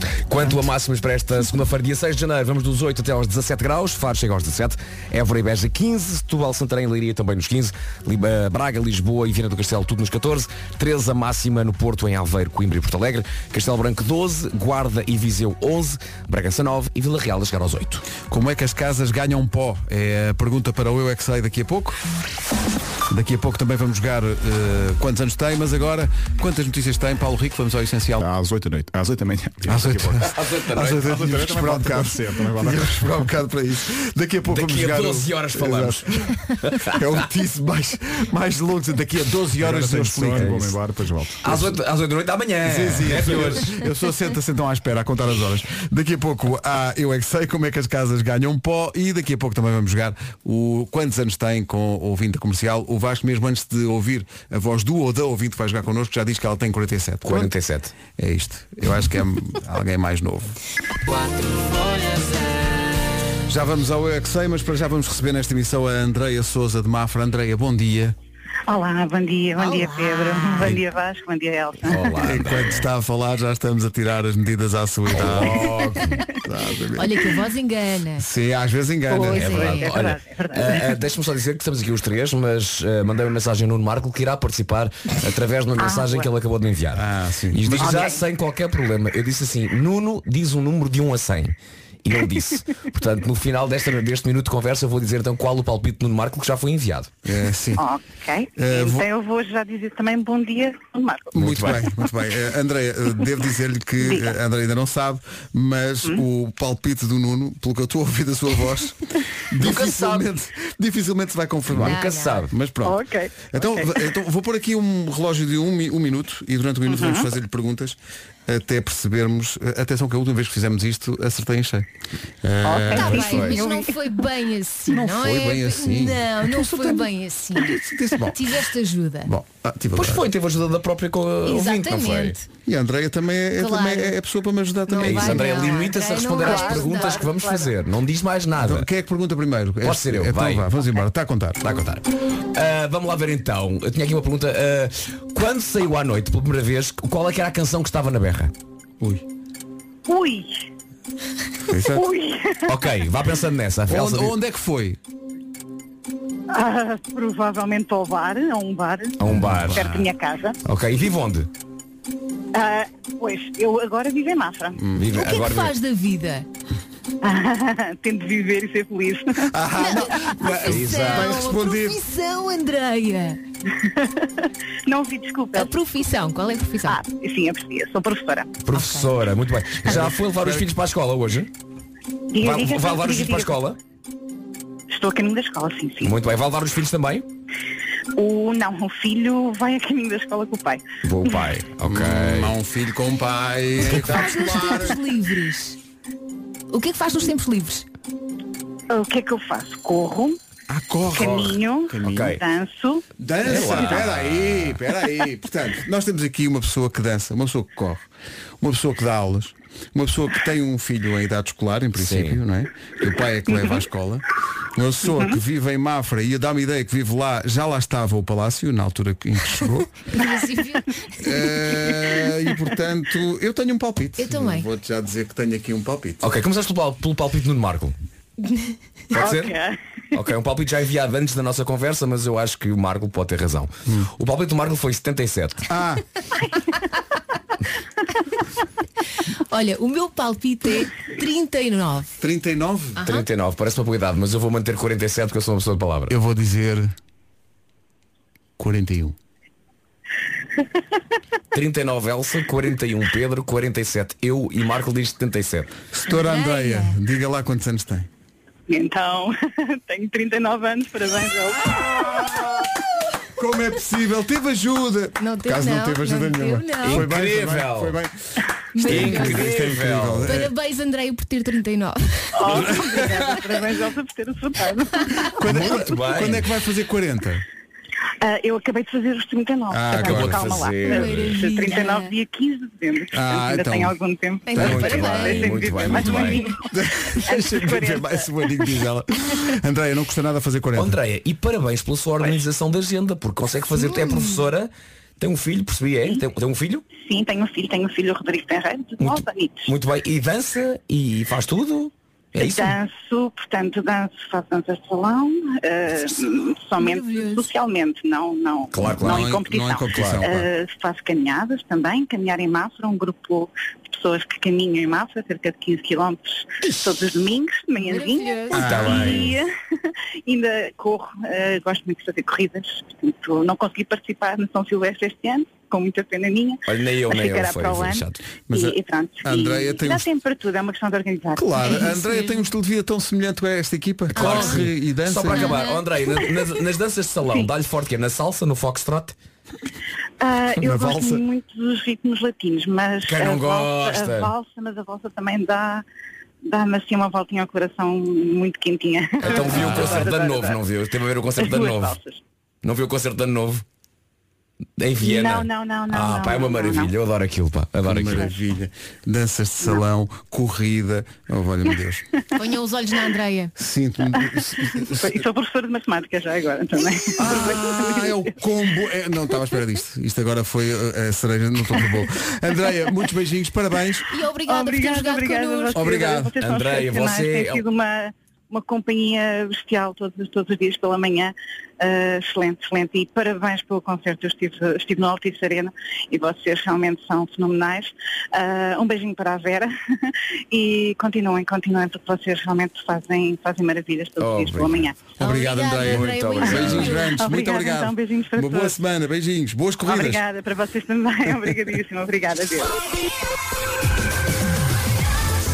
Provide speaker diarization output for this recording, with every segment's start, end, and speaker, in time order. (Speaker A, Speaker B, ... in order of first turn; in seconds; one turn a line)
Speaker A: 0.3-18.0
Speaker B: 18.3-22.0
Speaker B: 23.1-28.2
Speaker C: 28.2-33.1
Speaker B: 29.6-36.3
Speaker A: 30.3-31.0
Speaker A: 34.5-36.9
Speaker B: 36.9-40.8
Speaker C: 39.5-41.7
Speaker A: 41.4-43.8
Speaker B: 42.6-57.5
Speaker A: 57.2-57.9
Speaker B: 58.2-60.6
Speaker B: 63.5-68.2
Speaker D: 68.7-72.2
Speaker E: 69.6-70.8
Speaker A: 71.8-72.8
Speaker B: 72.2-77.3
Speaker A: 75.1-76.2
Speaker E: 77.0-78.2
Speaker B: 78.2-79.7
Speaker D: 79.1-81.0
Speaker E: 79.2-79.9
Speaker A: 79.3-97.1
Speaker D: 85.8-86.3
Speaker B: 86.9-88.1
Speaker D: 87.8-88.2
Speaker B: 97.2-97.8
Speaker D: 97.8-101.8
Speaker B: 98.6-99.0
Speaker A: 101.3-101.8
Speaker B: 101.3-121.9
Speaker D: 104.0-104.3
Speaker A: 109.6-110.2
Speaker A: 111.7-112.5
Speaker E: 111.8-112.5
Speaker D: 112.8-114.1
Speaker D: 116.8-117.3
Speaker B: 122.4-123.6
Speaker D: 122.6-123.9
Speaker E: 122.9-129.3
Speaker A: 123.1-123.4
Speaker B: 124.9-128.6
Speaker B: 129.2-130.2
Speaker A: 129.9-132.3
Speaker E: 131.4-132.4
Speaker B: 132.7-135.8
Speaker E: 133.6-134.2
Speaker E: 134.9-137.2
Speaker A: 135.0-138.9
Speaker D: 136.5-137.7
Speaker B: 138.6-141.6
Speaker A: 139.8-140.7
Speaker A: 141.6-148.5
Speaker B: 149.0-149.2
Speaker D: 150.1-150.7
Speaker B: 151.6-152.1
Speaker D: 151.9-152.8
Speaker A: 152.7-154.3
Speaker B: 153.9-155.0
Speaker D: 156.5-160.6
Speaker A: 159.2-159.9
Speaker B: 159.3-160.1
Speaker A: 160.6-161.5
Speaker D: 162.5-164.8
Speaker B: 164.8-165.1
Speaker A: 164.9-165.7
Speaker E: 165.1-166.4
Speaker D: 167.2-169.5
Speaker B: 169.4-172.0
Speaker E: 169.8-173.4
Speaker A: 170.6-171.4
Speaker D: 173.7-175.9
Speaker E: 175.5-177.0
Speaker D: 176.8-178.5
Speaker A: 178.6-181.5
Speaker E: 178.7-179.1
Speaker B: 179.9-180.7
Speaker D: 182.3-183.6
Speaker A: 182.4-183.8
Speaker D: 184.9-186.2
Speaker A: 186.0-187.2
Speaker D: 188.2-190.8
Speaker A: 191.0-192.5
Speaker B: 191.8-195.0
Speaker E: 193.9-195.8
Speaker E: 196.7-197.8
Speaker D: 198.9-200.4
Speaker B: 200.7-202.4
Speaker D: 201.1-203.0
Speaker A: 201.2-202.4
Speaker B: 203.2-208.1
Speaker A: 203.4-204.8
Speaker B: 208.6-219.9
Speaker A: 211.9-212.4
Speaker D: 215.1-215.4
Speaker E: 220.1-220.9
Speaker B: 221.2-226.2
Speaker E: 224.2-224.7
Speaker A: 226.2-227.9
Speaker E: 228.4-228.7
Speaker A: 229.1-229.5
Speaker D: 229.1-229.8
Speaker A: 230.1-235.6
Speaker B: 235.7-236.0
Speaker E: 239.5-242.1
Speaker B: 242.2-243.0
Speaker E: 243.0-243.2
Speaker A: 243.0-246.1
Speaker B: 246.1-246.9
Speaker B: 248.6-249.2
Speaker A: 251.5-255.7
Speaker B: 255.9-258.1
Speaker E: 256.1-257.0
Speaker D: 258.7-262.2
Speaker B: 261.8-262.6
Speaker B: 263.4-268.1
Speaker E: 265.2-267.0
Speaker A: 266.8-268.0
Speaker E: 268.7-269.4
Speaker B: 268.8-270.5
Speaker A: 268.8-270.3
Speaker E: 270.2-272.4
Speaker D: 272.4-275.3
Speaker B: 272.5-273.2
Speaker B: 275.4-277.4
Speaker A: 275.4-276.5
Speaker D: 278.2-288.7
Speaker B: 279.7-280.6
Speaker A: 279.9-281.3
Speaker E: 280.9-282.1
Speaker B: 283.1-283.9
Speaker E: 284.4-286.5
Speaker B: 284.5-284.9
Speaker A: 284.6-286.5
Speaker B: 286.7-291.0
Speaker A: 290.8-296.8
Speaker E: 293.8-294.4
Speaker D: 297.0-299.7
Speaker A: 299.0-302.8
Speaker D: 302.4-331.6
Speaker E: 306.8-307.5
Speaker A: 308.7-309.3
Speaker B: 308.9-310.5
Speaker A: 309.9-310.2
Speaker E: 317.8-318.6
Speaker B: 318.5-319.3
Speaker A: 318.5-319.4
Speaker A: 326.7-328.2
Speaker B: 328.5-330.1
Speaker B: 331.4-335.6
Speaker E: 331.6-332.5
Speaker A: 334.1-339.1
Speaker E: 334.2-334.6
Speaker E: 335.3-335.8
Speaker D: 340.2-345.8
Speaker B: 340.6-341.2
Speaker A: 343.1-344.3
Speaker D: 346.4-350.6
Speaker A: 349.2-352.0
Speaker B: 349.5-350.1
Speaker D: 351.4-352.2
Speaker A: 352.6-353.6
Speaker A: 354.8-358.3
Speaker D: 355.0-356.9
Speaker B: 357.9-362.0
Speaker E: 362.3-363.5
Speaker B: 363.6-365.2
Speaker D: 364.8-368.2
Speaker B: 367.2-374.1
Speaker E: 374.1-375.9
Speaker D: 374.4-395.0
Speaker B: 375.7-376.3
Speaker A: 376.4-377.6
Speaker A: 394.2-394.8
Speaker B: 395.2-400.2
Speaker E: 395.2-397.1
Speaker A: 395.8-397.0
Speaker D: 397.1-398.8
Speaker D: 399.8-402.8